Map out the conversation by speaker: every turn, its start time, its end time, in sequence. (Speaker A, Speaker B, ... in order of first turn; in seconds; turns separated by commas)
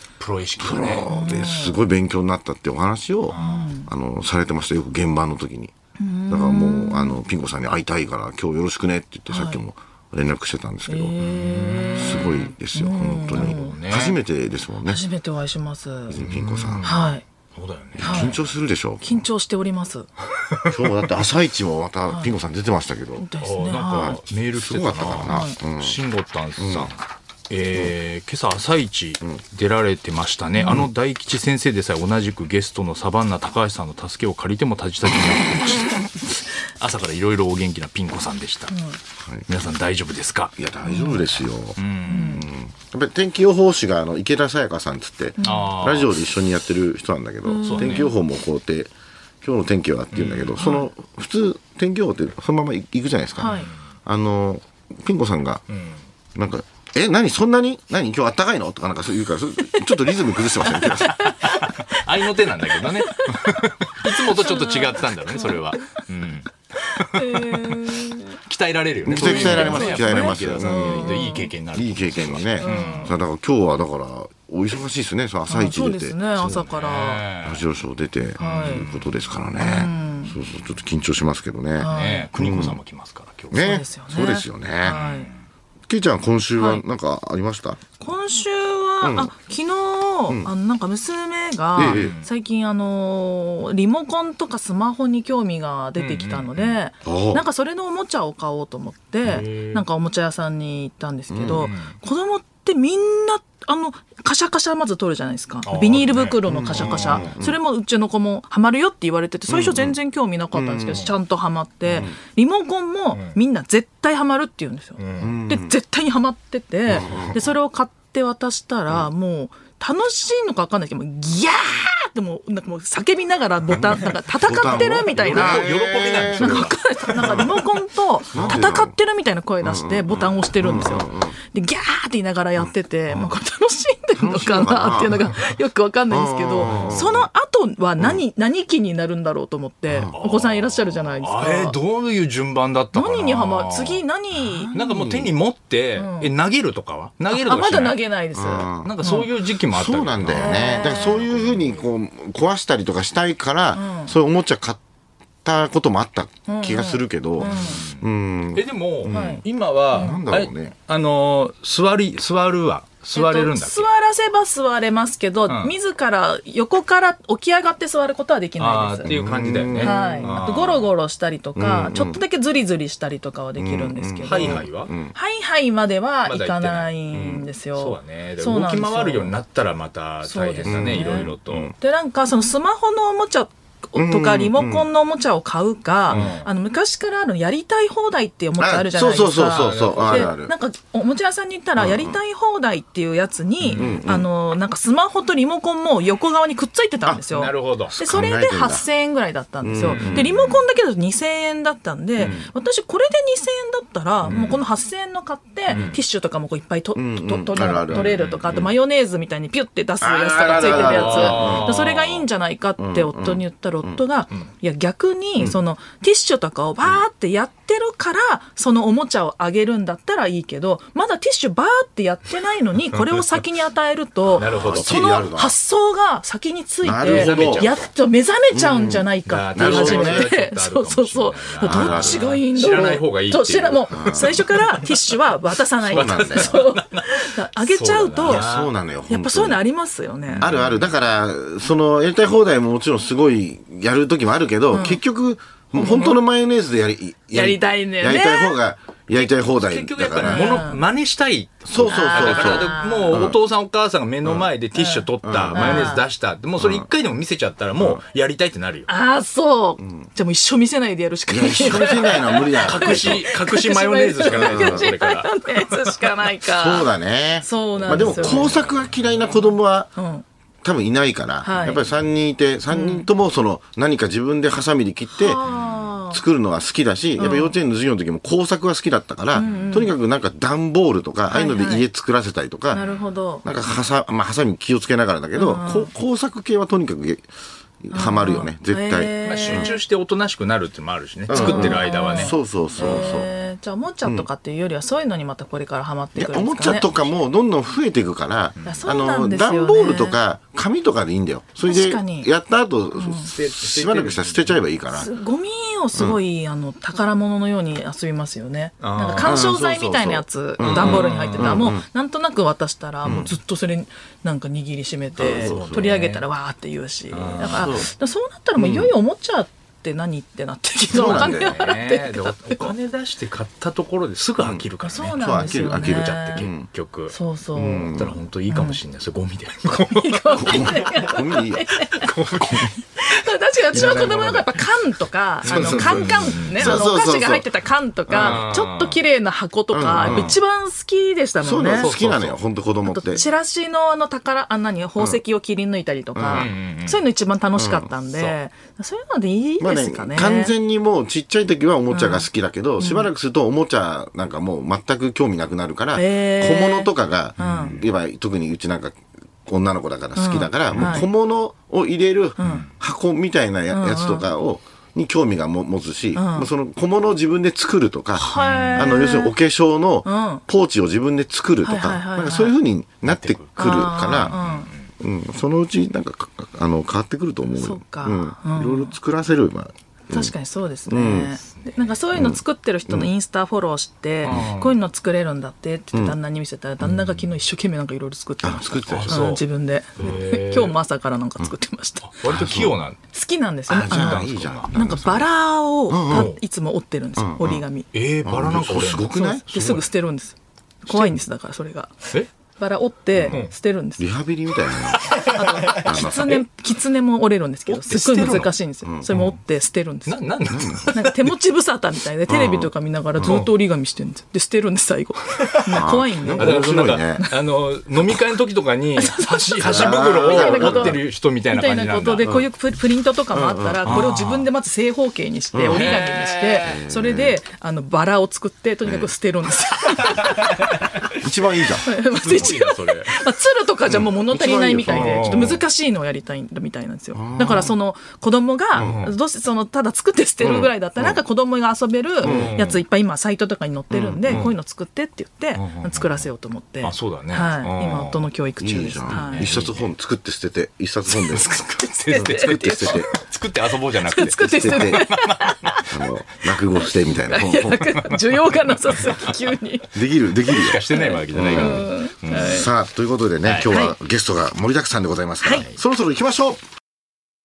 Speaker A: 0.2-1.1, Speaker B: 0.6-5.7, Speaker C: 1.1-1.8, Speaker A: 3.3-3.7, Speaker C: 3.4-3.9, Speaker C: 6.0-7.2, Speaker B: 6.3-11.2, Speaker C: 9.3-9.6, Speaker C: 10.9-13.8, Speaker A: 11.2-12.5, Speaker B: 11.9-15.0, Speaker A: 13.3-14.2, Speaker C: 14.8-16.2, Speaker B: 16.1-16.9, Speaker A: 16.2-18.5, Speaker C: 16.8-17.2, Speaker B: 18.0-19.2, Speaker C: 18.0-18.4, Speaker C: 19.0-20.1, Speaker B: 20.7-23.3, Speaker C: 22.1-22.3, Speaker C: 23.2-24.2, Speaker A: 23.4-27.0, Speaker B: 23.8-26.0, Speaker C: 25.2-25.6, Speaker B: 26.6-26.9, Speaker A: 27.5-38.7, Speaker C: 30.6-30.8, Speaker C: 38.7-39.0, Speaker A: 39.5-40.6, Speaker B: 40.6-48.9, Speaker C: 40.9-41.2, Speaker A: 41.2-42.4, Speaker C: 42.1-42.4, Speaker C: 45.4-45.7, Speaker A: 45.4-46.2, Speaker C: 47.5-48.1, Speaker A: 47.6-48.1, Speaker B: 49.4-55.6, Speaker A: 50.1-50.7, Speaker C: 50.6-50.9, Speaker C: 53.4-53.7, Speaker A: 55.7-56.0, Speaker B: 56.4-61.3, Speaker C: 59.6-66.0, Speaker A: 60.8-67.8, Speaker C: 67.0-68.4, Speaker A: 68.5-73.2, Speaker B: 69.1-76.2, Speaker C: 69.1-71.5, Speaker C: 72.6-73.2, Speaker C: 75.5-77.3, Speaker A: 76.4-77.7, Speaker B: 77.5-82.8, Speaker C: 78.4-78.9, Speaker A: 78.4-79.1, Speaker C: 79.6-80.4, Speaker C: 81.8-82.3, Speaker A: 81.8-83.8, Speaker B: 83.5-85.0, Speaker C: 83.5-85.3, Speaker A: 84.8-85.4, Speaker B: 85.9-87.8, Speaker C: 86.6-86.8, Speaker C: 88.0-141.8, Speaker B: 89.0-89.3, Speaker B: 91.8-92.1, Speaker A: 91.8-92.3, Speaker A: 96.0-96.8, Speaker B: 97.0-97.4, Speaker A: 99.2-99.8, Speaker B: 101.3-101.7, Speaker A: 101.5-102.0, Speaker A: 105.7-107.4, Speaker B: 106.5-107.6, Speaker B: 109.5-110.0, Speaker B: 110.5-111.1, Speaker A: 113.1-113.4, Speaker A: 115.0-115.4, Speaker B: 115.2-115.8, Speaker B: 116.9-117.4, Speaker A: 117.0-117.3, Speaker B: 123.7-127.5, Speaker A: 125.1-127.5, Speaker B: 128.3-129.0, Speaker A: 128.3-128.6, Speaker B: 129.6-131.4, Speaker B: 134.2-135.3, Speaker B: 136.1-137.3, Speaker A: 136.6-137.0, Speaker B: 139.9-140.2, Speaker A: 140.1-144.0, Speaker C: 142.9-144.7, Speaker B: 144.3-145.3, Speaker A: 144.7-148.0, Speaker C: 145.9-146.3, Speaker C: 147.3-149.3, Speaker B: 148.3-149.0, Speaker A: 148.8-151.8, Speaker B: 149.7-154.8, Speaker C: 150.3-151.3, Speaker C: 153.7-154.2, Speaker B: 155.4-160.8, Speaker C: 156.5-157.8, Speaker A: 157.4-163.9, Speaker C: 159.1-160.2, Speaker C: 163.1-169.1, Speaker A: 165.5-165.7, Speaker A: 168.6-170.9, Speaker B: 169.1-170.4, Speaker C: 169.8-179.4, Speaker B: 171.6-172.2, Speaker B: 173.6-175.1, Speaker A: 174.2-174.9, Speaker A: 176.3-181.7, Speaker C: 180.2-238.4, Speaker B: 180.7-181.7, Speaker B: 183.9-184.9, Speaker A: 186.1-186.5, Speaker B: 186.1-186.4, Speaker B: 188.6-190.5, Speaker A: 189.4-190.3, Speaker B: 191.8-192.2, Speaker A: 193.6-194.0, Speaker B: 193.7-194.3, Speaker A: 197.3-197.9, Speaker B: 197.9-198.9, Speaker B: 199.6-200.4, Speaker A: 199.8-200.6, Speaker B: 202.2-202.5, Speaker A: 202.2-202.5, Speaker B: 204.2-204.5, Speaker A: 204.2-204.6, Speaker A: 205.7-206.0, Speaker B: 205.7-206.0, Speaker B: 206.9-208.7, Speaker A: 207.9-208.6, Speaker B: 210.0-211.8, Speaker A: 210.5-212.2, Speaker B: 212.8-214.0, Speaker B: 224.2-225.6, Speaker A: 224.4-224.9, Speaker B: 226.8-227.7, Speaker A: 227.0-227.9, Speaker B: 228.5-230.3, Speaker A: 229.3-235.0, Speaker B: 231.6-232.3, Speaker B: 233.9-234.4, Speaker B: 235.8-236.5, Speaker A: 235.9-238.7, Speaker B: 238.3-239.6, Speaker C: 239.1-240.5, Speaker A: 240.3-241.0, Speaker B: 240.4-250.6, Speaker C: 244.7-245.0, Speaker C: 245.7-246.2, Speaker C: 247.3-248.6, Speaker A: 249.1-258.9, Speaker C: 250.2-250.8, Speaker B: 251.7-253.4, Speaker C: 251.9-253.3, Speaker C: 254.8-256.0, Speaker B: 255.2-255.9, Speaker B: 256.6-256.9, Speaker C: 258.9-266.9, Speaker B: 259.8-260.1, Speaker B: 261.3-263.2, Speaker A: 262.6-266.1, Speaker B: 264.2-264.9, Speaker B: 266.5-269.9, Speaker C: 267.4-268.7, Speaker A: 267.8-268.8, Speaker C: 269.4-270.2, Speaker B: 270.6-275.4, Speaker C: 271.4-271.9, Speaker C: 272.7-273.1, Speaker C: 275.1-276.2, Speaker A: 275.4-275.9, Speaker B: 276.1-282.9, Speaker C: 277.2-277.6, Speaker C: 279.3-279.9, Speaker C: 281.3-281.9, Speaker C: 282.7-283.4, Speaker B: 283.4-287.3, Speaker C: 285.4-285.9, Speaker B: 287.8-289.7, Speaker C: 287.9-289.8, Speaker A: 289.2-293.1, Speaker B: 291.3-293.3, Speaker C: 291.3-297.0, Speaker B: 296.2-305.1, Speaker A: 298.6-298.9, Speaker C: 298.6-300.2, Speaker C: 301.6-302.3, Speaker C: 302.9-303.3, Speaker A: 303.2-304.7, Speaker C: 304.9-322.7, Speaker A: 308.8-309.5, Speaker B: 309.2-311.9, Speaker A: 310.6-311.7, Speaker B: 313.0-313.3, Speaker B: 315.2-315.9, Speaker A: 315.2-316.2, Speaker A: 317.1-317.9, Speaker B: 317.4-317.9, Speaker B: 318.6-318.9, Speaker B: 320.9-321.5, Speaker A: 320.9-327.1, Speaker B: 324.4-324.6, Speaker C: 324.8-326.5, Speaker B: 325.2-326.7, Speaker C: 327.1-327.9, Speaker B: 327.5-328.2, Speaker A: 327.9-330.8, Speaker C: 328.5-328.8, Speaker C: 329.9-332.1, Speaker B: 330.3-331.7, Speaker A: 331.9-332.8, Speaker C: 333.0-341.9, Speaker A: 333.7-334.5, Speaker A: 335.4-336.8, Speaker B: 335.4-337.5, Speaker B: 338.1-338.4, Speaker A: 338.1-339.0, Speaker B: 339.7-340.4, Speaker A: 339.9-340.4, Speaker B: 341.4-343.2, Speaker A: 341.8-342.4, Speaker C: 342.8-350.6, Speaker B: 346.1-346.5, Speaker A: 346.3-347.0, Speaker B: 347.6-347.9, Speaker A: 348.1-348.3, Speaker B: 349.6-374.4, Speaker C: 351.9-352.3, Speaker C: 352.8-353.1, Speaker C: 355.9-357.8, Speaker A: 357.4-357.8, Speaker C: 360.2-361.1, Speaker A: 360.7-361.0, Speaker C: 362.4-362.7, Speaker C: 363.7-364.3, Speaker C: 366.1-366.5, Speaker C: 368.2-369.4, Speaker A: 368.3-368.9, Speaker C: 370.1-370.4, Speaker C: 371.6-372.6, Speaker A: 373.0-374.9, Speaker C: 373.6-374.7, Speaker B: 375.0-380.3, Speaker C: 377.6-378.9, Speaker C: 380.1-392.1, Speaker B: 380.9-381.4, Speaker A: 381.4-382.0, Speaker B: 382.1-383.1, Speaker A: 384.2-384.8, Speaker B: 386.8-387.2, Speaker B: 388.4-389.2, Speaker A: 388.9-389.4, Speaker A: 390.0-390.8, Speaker A: 392.0-393.0, Speaker B: 392.2-392.8, Speaker C: 393.1-397.9, Speaker B: 393.7-395.3, Speaker A: 393.8-394.7, Speaker B: 395.9-396.3, Speaker A: 396.1-396.4, Speaker B: 397.2-397.6, Speaker A: 397.9-399.9, Speaker B: 398.2-399.4, Speaker C: 399.1-404.1, Speaker B: 400.9-401.2, Speaker B: 403.1-403.4, Speaker A: 403.3-403.5, Speaker B: 404.0-406.4, Speaker C: 405.0-410.2, Speaker A: 405.8-406.2, Speaker A: 407.7-408.5, Speaker B: 408.8-409.1, Speaker A: 410.1-411.3, Speaker B: 410.5-410.9, Speaker C: 410.8-416.6, Speaker B: 412.3-413.4, Speaker A: 413.2-413.5, Speaker B: 415.7-417.3, Speaker A: 416.4-422.3, Speaker C: 419.0-430.8, Speaker B: 419.6-421.0, Speaker B: 422.2-422.5, Speaker B: 423.3-424.1, Speaker A: 423.9-424.5, Speaker B: 425.5-426.0, Speaker A: 425.7-426.8, Speaker B: 426.6-427.4, Speaker B: 428.8-429.1, Speaker B: 431.2-431.9, Speaker C: 431.8-449.5, Speaker A: 432.1-433.1, Speaker B: 433.9-435.6, Speaker A: 434.8-435.6, Speaker B: 437.1-437.8, Speaker B: 438.7-439.0, Speaker A: 438.8-439.2, Speaker B: 440.4-441.2, Speaker A: 442.2-442.8, Speaker B: 442.2-442.6, Speaker B: 443.9-444.5, Speaker A: 444.3-444.5, Speaker A: 445.5-446.3, Speaker A: 446.8-448.3, Speaker B: 448.6-453.1, Speaker A: 449.1-449.9, Speaker C: 451.8-453.1, Speaker A: 452.0-455.7, Speaker C: 454.0-455.9, Speaker B: 454.4-455.1, Speaker B: 455.9-457.9, Speaker C: 457.3-460.0, Speaker A: 458.1-459.2, Speaker B: 459.9-466.6, Speaker A: 460.5-462.7, Speaker C: 460.9-462.7, Speaker A: 463.4-463.7, Speaker C: 463.7-463.9, Speaker A: 465.5-465.8